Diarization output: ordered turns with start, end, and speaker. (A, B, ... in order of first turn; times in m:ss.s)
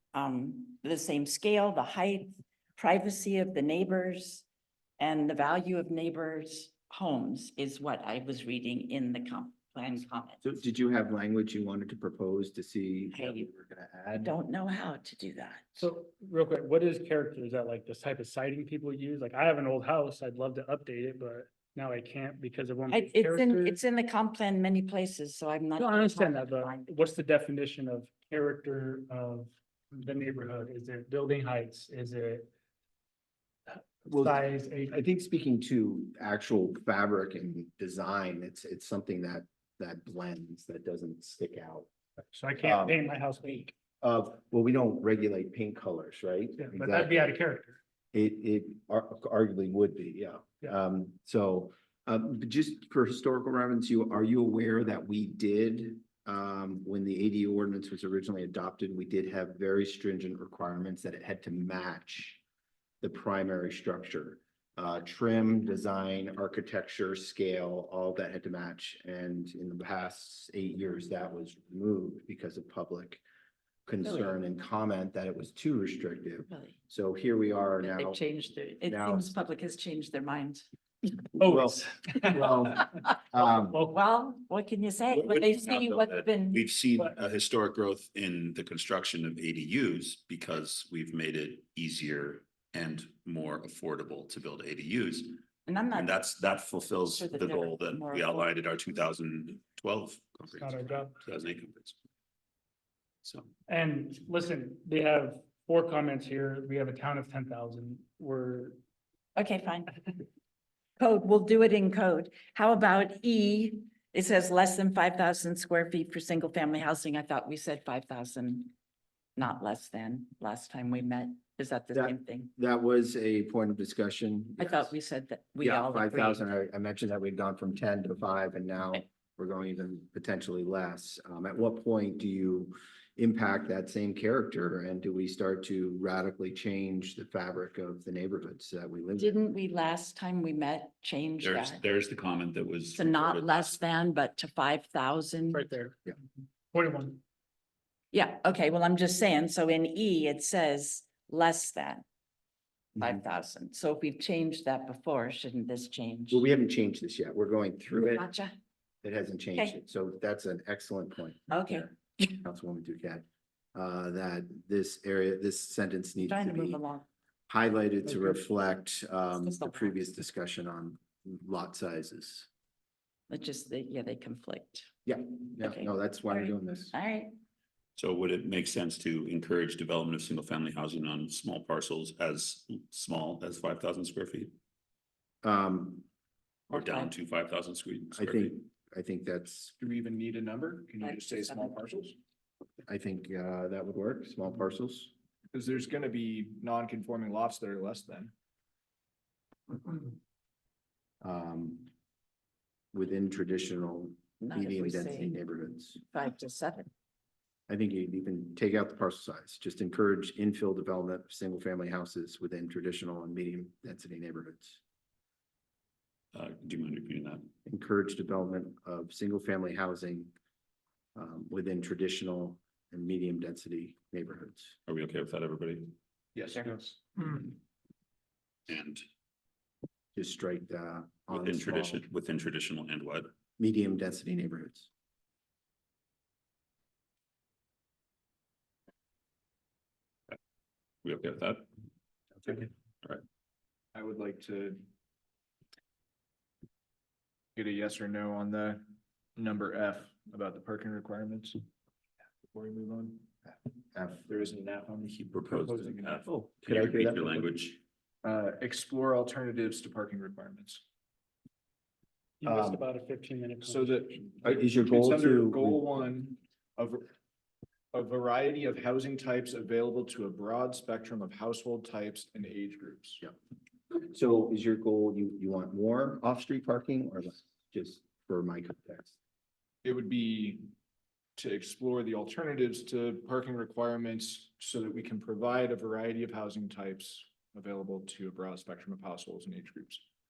0:00.1-0:04.4 A
0:05.0-0:10.4 A
0:10.4-0:14.3 B
0:13.1-0:13.4 A
0:14.1-0:15.9 A
0:15.8-0:23.8 C
0:22.9-0:26.9 A
0:25.8-0:32.5 C
0:33.7-0:35.0 C
0:34.1-0:41.9 B
0:42.3-0:43.7 C
0:42.6-0:43.0 B
0:44.0-0:47.3 B
0:46.6-0:47.8 C
0:48.1-1:02.4 B
1:03.0-1:13.2 B
1:13.8-1:18.2 B
1:14.0-1:14.3 A
1:16.5-1:16.8 A
1:17.8-1:20.6 A
1:18.8-1:19.3 B
1:21.4-1:22.6 C
1:21.4-1:23.8 B
1:23.8-1:26.6 A
1:25.1-1:35.4 D
1:35.6-1:36.1 A
1:35.9-1:42.0 D
1:37.0-1:38.5 A
1:40.6-1:41.2 C
1:43.7-1:48.8 C
1:49.4-1:49.9 A
1:51.0-1:58.7 A
1:59.4-2:02.5 A
2:01.9-2:04.9 B
2:04.6-2:06.5 A
2:05.6-2:19.4 B
2:19.2-2:21.8 A
2:21.4-2:23.8 D
2:22.9-2:25.7 A
2:25.5-2:26.0 C
2:26.7-2:27.2 C
2:28.1-2:32.0 A
2:33.0-2:36.4 A
2:36.3-2:38.3 B
2:37.9-2:38.5 A
2:39.0-2:46.8 B
2:41.5-2:42.3 A
2:46.2-2:47.1 A
2:47.5-2:52.5 B
2:49.3-2:50.0 A
2:53.3-2:54.9 A
2:55.0-2:56.9 B
2:55.6-2:57.3 A
2:58.0-3:04.5 D
3:05.4-3:06.0 B
3:06.7-3:08.6 D
3:06.7-3:07.1 A
3:08.1-3:09.7 B
3:09.8-3:12.2 E
3:11.0-3:11.8 A
3:12.8-3:15.1 B
3:15.5-3:18.3 E
3:21.2-3:21.9 B
3:22.9-3:26.0 B
3:24.4-3:25.3 A
3:26.1-3:26.9 A
3:27.7-3:34.8 B
3:36.3-3:37.4 D
3:37.6-3:40.3 B
3:41.1-3:44.8 B
3:44.9-3:45.9 D
3:46.3-3:47.4 E
3:48.7-3:49.0 D
3:50.1-3:52.0 B
3:51.3-3:53.3 D
3:53.6-3:54.9 B
4:01.0-4:01.7 D
4:02.5-4:03.2 D
4:03.9-4:04.8 E
4:07.6-4:08.8 E
4:09.4-4:11.6 E
4:12.5-4:13.3 E
4:13.9-4:14.5 B
4:14.3-4:16.2 E
4:15.0-4:17.8 D
4:16.3-4:17.5 B
4:18.2-4:20.8 E
4:22.4-4:24.0 C
4:22.4-4:22.8 B
4:23.6-4:27.1 E
4:24.4-4:25.8 B
4:27.9-4:33.2 E
4:34.0-4:39.2 B
4:39.8-4:40.7 E
4:41.4-4:50.0 E